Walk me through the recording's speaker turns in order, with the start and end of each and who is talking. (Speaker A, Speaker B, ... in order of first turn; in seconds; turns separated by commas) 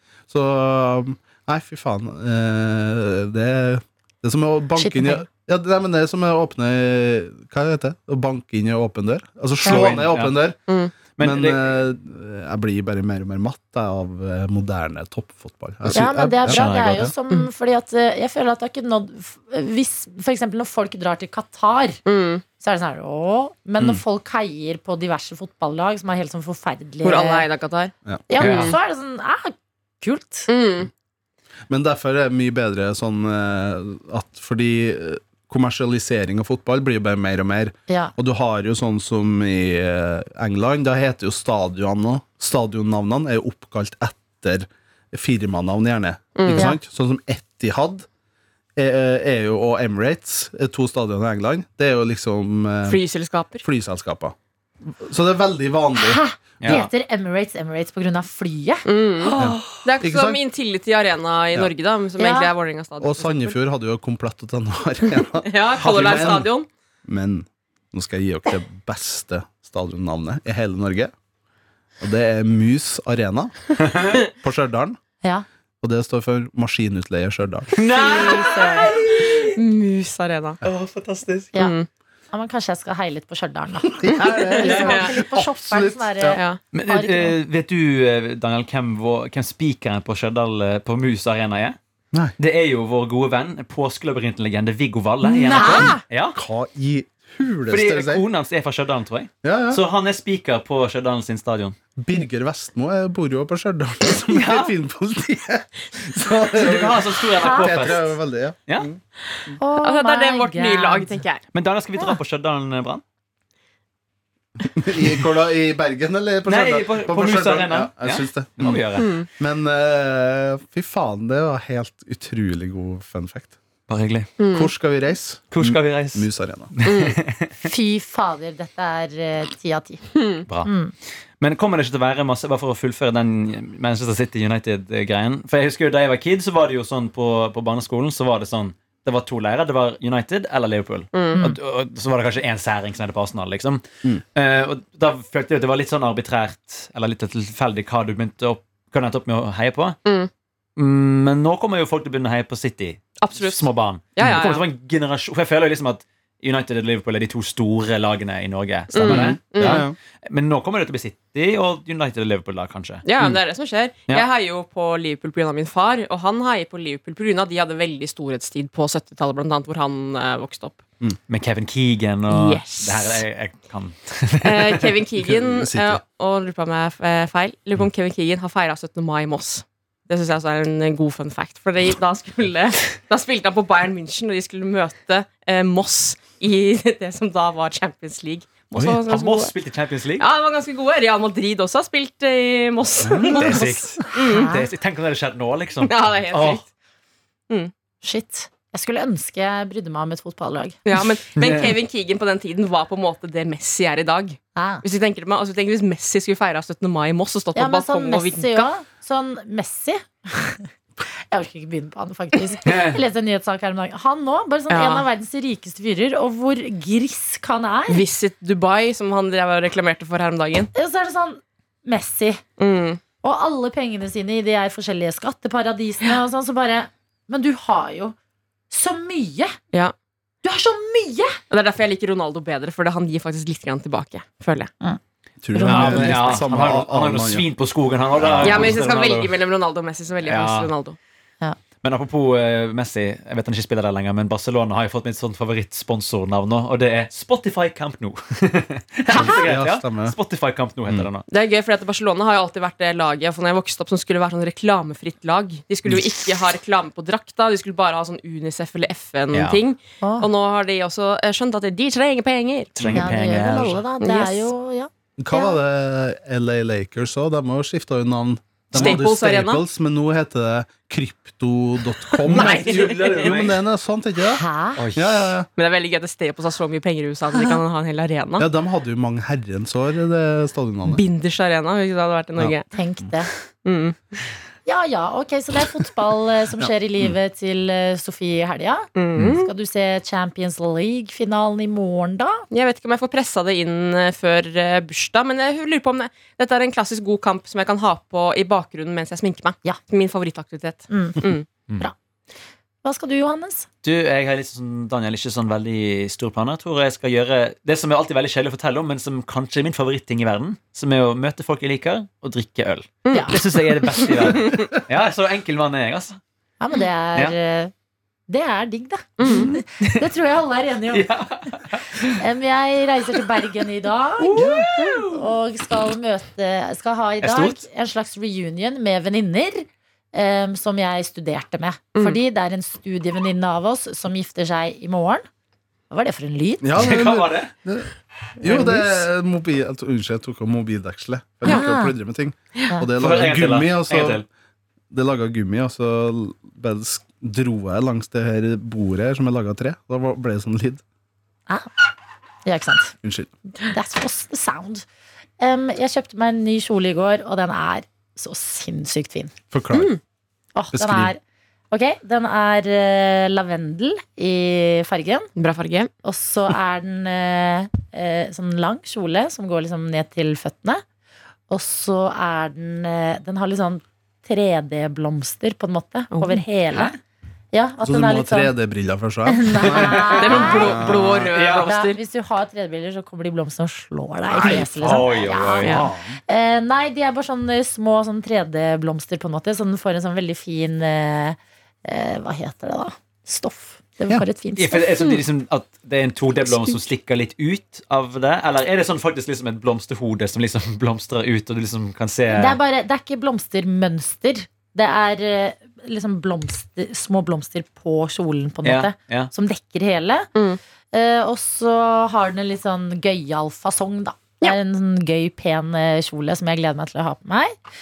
Speaker A: 0.3-10.6, Speaker B: 4.8-5.2, Speaker B: 9.6-9.9, Speaker C: 9.6-10.4, Speaker D: 10.7-10.9, Speaker C: 11.2-11.7, Speaker A: 11.2-17.1, Speaker B: 15.9-22.0, Speaker C: 16.5-17.1, Speaker D: 22.1-22.4, Speaker B: 22.6-27.5, Speaker D: 27.0-28.8, Speaker B: 28.3-30.5, Speaker C: 28.4-28.8, Speaker D: 30.5-30.9, Speaker A: 31.7-48.1, Speaker B: 37.9-38.1, Speaker D: 46.4-46.7, Speaker A: 48.8-53.0, Speaker D: 52.9-53.6, Speaker A: 53.6-56.7, Speaker B: 56.0-59.6, Speaker C: 56.6-56.9, Speaker D: 58.9-63.6, Speaker A: 59.4-60.4, Speaker B: 62.2-62.5, Speaker A: 63.0-66.5, Speaker D: 65.4-66.7, Speaker C: 65.8-66.5, Speaker A: 67.0-71.1, Speaker A: 72.0-75.0, Speaker C: 73.9-74.2, Speaker A: 75.8-77.7, Speaker C: 77.8-79.6, Speaker B: 78.0-78.9, Speaker D: 78.0-80.6, Speaker C: 80.6-81.5, Speaker D: 81.6-81.9, Speaker B: 82.3-87.4, Speaker A: 83.8-86.4, Speaker D: 84.6-85.1, Speaker D: 86.3-86.6, Speaker C: 86.7-91.8, Speaker C: 92.4-96.4, Speaker B: 95.2-96.0, Speaker A: 95.6-98.2, Speaker C: 97.7-101.8, Speaker A: 99.4-99.8, Speaker A: 102.0-109.0, Speaker C: 104.3-104.7, Speaker C: 106.5-108.1, Speaker B: 107.4-107.9, Speaker B: 109.6-111.2, Speaker D: 109.8-111.4, Speaker C: 111.5-113.0, Speaker A: 114.6-123.6, Speaker C: 116.5-119.2, Speaker D: 119.0-119.3, Speaker C: 123.9-124.3, Speaker D: 124.4-124.7, Speaker A: 124.5-126.7, Speaker C: 125.5-127.6, Speaker D: 126.8-127.2, Speaker B: 127.6-130.0, Speaker D: 130.1-130.4, Speaker B: 130.6-130.9, Speaker C: 131.4-150.0, Speaker D: 141.1-141.4, Speaker C: 150.8-163.4, Speaker D: 153.2-154.6, Speaker D: 158.9-159.8, Speaker A: 159.0-159.9, Speaker D: 163.1-170.8, Speaker C: 171.3-174.9, Speaker D: 172.3-173.2, Speaker D: 174.4-189.5, Speaker A: 175.2-176.0, Speaker C: 188.9-190.3, Speaker D: 190.2-194.5, Speaker A: 193.0-193.6, Speaker C: 193.3-196.6, Speaker B: 194.1-194.7, Speaker D: 195.8-196.7, Speaker B: 198.0-200.8, Speaker D: 200.9-208.7, Speaker C: 201.4-201.8, Speaker B: 204.6-204.8, Speaker B: 207.6-218.0, Speaker C: 212.6-213.0, Speaker D: 214.7-215.1, Speaker D: 217.9-220.7, Speaker B: 220.7-222.4, Speaker D: 222.6-223.0, Speaker B: 223.2-228.2, Speaker B: 228.7-229.5, Speaker B: 230.4-231.4, Speaker D: 231.5-234.7, Speaker A: 235.4-237.4, Speaker B: 235.5-236.6, Speaker C: 235.7-239.4, Speaker A: 238.2-238.8, Speaker D: 238.4-241.0, Speaker C: 240.2-240.7, Speaker C: 241.8-251.3, Speaker A: 249.1-250.1, Speaker D: 251.3-263.1, Speaker C: 259.3-259.6, Speaker B: 260.0-260.3, Speaker C: 262.8-263.8, Speaker B: 262.9-265.6, Speaker D: 264.0-264.5, Speaker A: 265.2-275.5, Speaker C: 268.7-269.0, Speaker D: 268.7-269.6, Speaker C: 272.2-273.6, Speaker D: 272.2-273.3, Speaker B: 274.3-274.8, Speaker C: 274.8-275.3, Speaker D: 275.6-278.5, Speaker B: 277.3-277.6, Speaker A: 278.4-281.0, Speaker D: 280.9-282.7, Speaker B: 282.7-283.3, Speaker D: 283.6-284.1, Speaker B: 284.6-292.4, Speaker A: 286.6-287.1, Speaker D: 288.9-289.5, Speaker D: 292.5-301.4, Speaker B: 300.9-301.3, Speaker B: 302.8-303.7, Speaker C: 303.8-316.2, Speaker D: 313.1-314.6, Speaker B: 313.1-313.4, Speaker B: 316.6-317.7, Speaker B: 318.3-321.1, Speaker D: 319.2-319.5, Speaker C: 319.2-320.0, Speaker C: 320.9-322.2, Speaker B: 322.0-324.5, Speaker C: 324.2-325.2, Speaker A: 324.4-324.7, Speaker B: 325.1-335.3, Speaker C: 327.2-327.6, Speaker B: 335.9-336.7, Speaker A: 336.6-344.2, Speaker C: 336.8-337.5, Speaker B: 338.4-339.0, Speaker B: 341.4-341.9, Speaker C: 343.0-344.2, Speaker A: 344.9-350.8, Speaker B: 352.4-352.9, Speaker A: 353.0-353.3, Speaker B: 353.6-354.9, Speaker B: 355.4-359.3, Speaker A: 359.5-359.9, Speaker D: 359.7-360.0, Speaker B: 360.6-361.2, Speaker A: 360.7-361.1, Speaker B: 361.7-365.3, Speaker D: 365.4-365.9, Speaker B: 366.0-370.8, Speaker B: 371.5-376.9, Speaker D: 376.1-376.9, Speaker B: 377.5-378.5, Speaker A: 377.8-381.3, Speaker B: 379.3-380.9, Speaker C: 379.7-381.7, Speaker D: 380.2-382.0, Speaker B: 381.6-395.2, Speaker A: 384.3-385.1, Speaker C: 384.5-385.9, Speaker A: 385.6-386.2, Speaker D: 385.6-385.9, Speaker C: 394.6-402.6, Speaker B: 402.3-410.3, Speaker C: 408.6-409.3, Speaker D: 410.4-410.6, Speaker B: 410.9-417.5